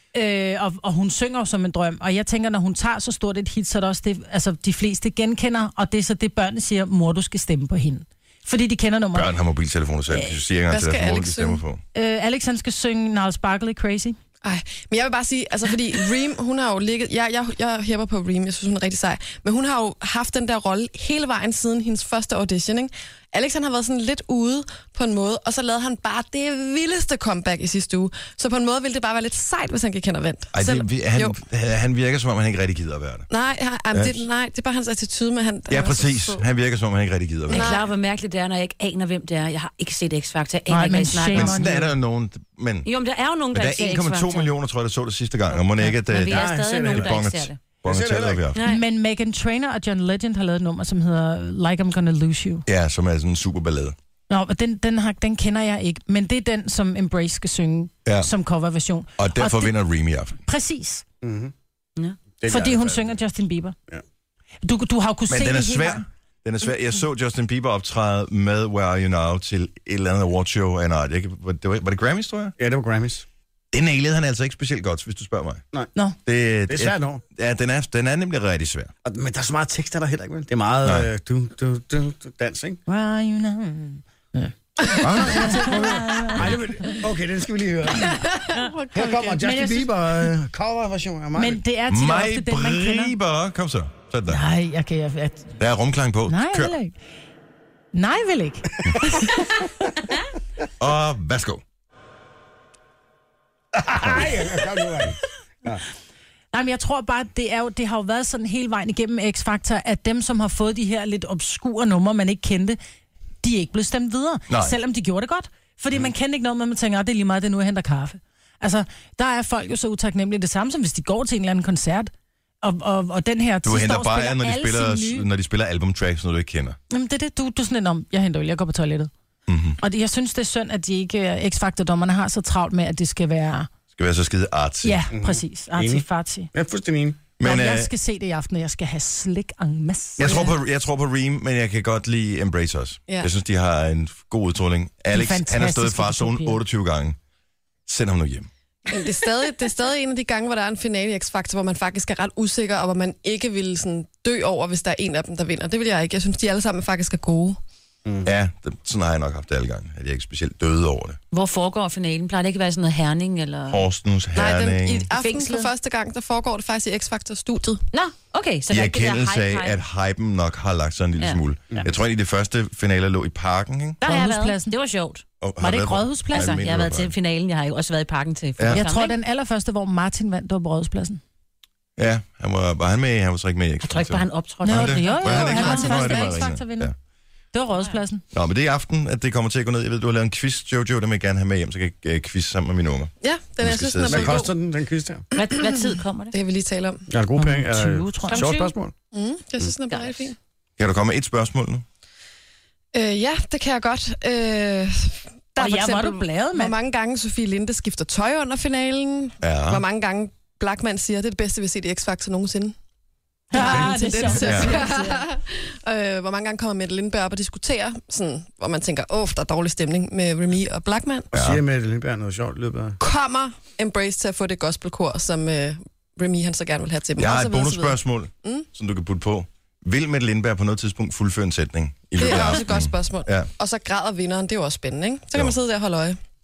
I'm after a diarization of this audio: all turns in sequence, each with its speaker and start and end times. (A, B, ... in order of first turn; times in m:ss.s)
0:00.1-0:09.3 A
0:09.1-0:11.8 B
0:10.7-0:11.6 C
0:11.9-0:14.2 A
0:14.4-0:31.4 C
0:30.5-0:33.3 B
0:33.3-0:36.4 C
0:33.9-0:34.2 B
0:35.7-0:37.7 B
0:37.5-0:37.8 C
0:37.5-0:41.8 D
0:40.7-0:41.9 A
0:41.3-0:42.9 B
0:42.9-0:44.5 D
0:43.5-0:48.6 B
0:45.8-0:47.6 D
0:46.3-0:47.2 E
0:47.8-0:48.4 E
0:48.6-0:48.8 D
0:48.6-0:52.6 A
0:52.7-0:54.0 B
0:54.3-0:59.8 A
0:58.0-0:58.3 B
0:59.2-1:00.4 B
1:00.4-1:01.0 A
1:01.2-1:01.5 E
1:02.4-1:03.2 E
1:02.5-1:03.8 A
1:04.6-1:06.0 A
1:05.3-1:12.5 B
1:12.6-1:13.2 E
1:13.7-1:15.6 B
1:16.2-1:18.9 B
1:16.7-1:17.2 E
1:19.0-1:22.8 E
1:22.9-1:27.0 A
1:25.0-1:25.7 B
1:25.1-1:28.3 E
1:28.4-1:29.2 C
1:28.9-1:31.6 E
1:29.3-1:30.3 A
1:31.4-1:33.1 A
1:31.9-1:34.4 B
1:34.3-1:35.6 A
1:35.6-1:36.8 B
1:36.3-1:37.0 A
1:37.9-1:39.6 A
1:40.8-1:41.6 B
1:43.8-1:45.8 E
1:46.5-1:52.8 A
1:53.4-2:02.1 A
1:54.5-1:54.8 B
2:02.6-2:05.3 A
2:03.6-2:06.8 B
2:06.9-2:09.1 A
2:09.5-2:09.8 B
2:09.8-2:13.7 A
2:13.9-2:15.1 B
2:14.8-2:16.5 A
2:15.1-2:17.2 E
2:17.4-2:17.9 B
2:17.4-2:20.5 A
2:20.2-2:27.2 B
2:25.1-2:26.6 A
2:27.9-2:28.5 B
2:28.9-2:37.6 C
2:38.0-2:38.3 E
2:38.2-2:41.2 B
2:41.3-2:43.8 D
2:43.7-2:45.1 B
2:44.3-2:47.8 C
2:45.1-2:45.7 D
2:47.9-2:49.8 D
2:48.7-2:54.0 B
2:54.0-2:55.2 D
2:54.0-2:54.7 A
2:55.4-2:57.1 B
2:55.6-2:56.6 A
2:56.3-2:59.1 D
2:58.6-2:58.9 B
2:58.7-3:01.2 A
3:02.0-3:06.9 B
3:03.8-3:05.2 D
3:04.6-3:06.9 A
3:05.1-3:06.5 C
3:07.5-3:08.2 A
3:08.3-3:14.4 B
3:13.2-3:14.5 C
3:14.1-3:15.2 E
3:15.4-3:16.4 D
3:16.3-3:17.1 C
3:17.1-3:18.9 E
3:17.4-3:18.4 A
3:18.3-3:18.7 D
3:19.1-3:20.4 C
3:19.9-3:20.3 D
3:20.8-3:21.8 B
3:22.9-3:32.8 C
3:25.6-3:26.7 A
3:29.4-3:29.8 B
3:33.5-3:35.2 A
3:33.6-3:41.3 C
3:34.3-3:34.8 B
3:41.3-3:41.6 B
3:41.4-3:43.0 E
3:43.0-3:48.7 C
3:47.2-3:53.5 B
3:52.2-3:56.2 C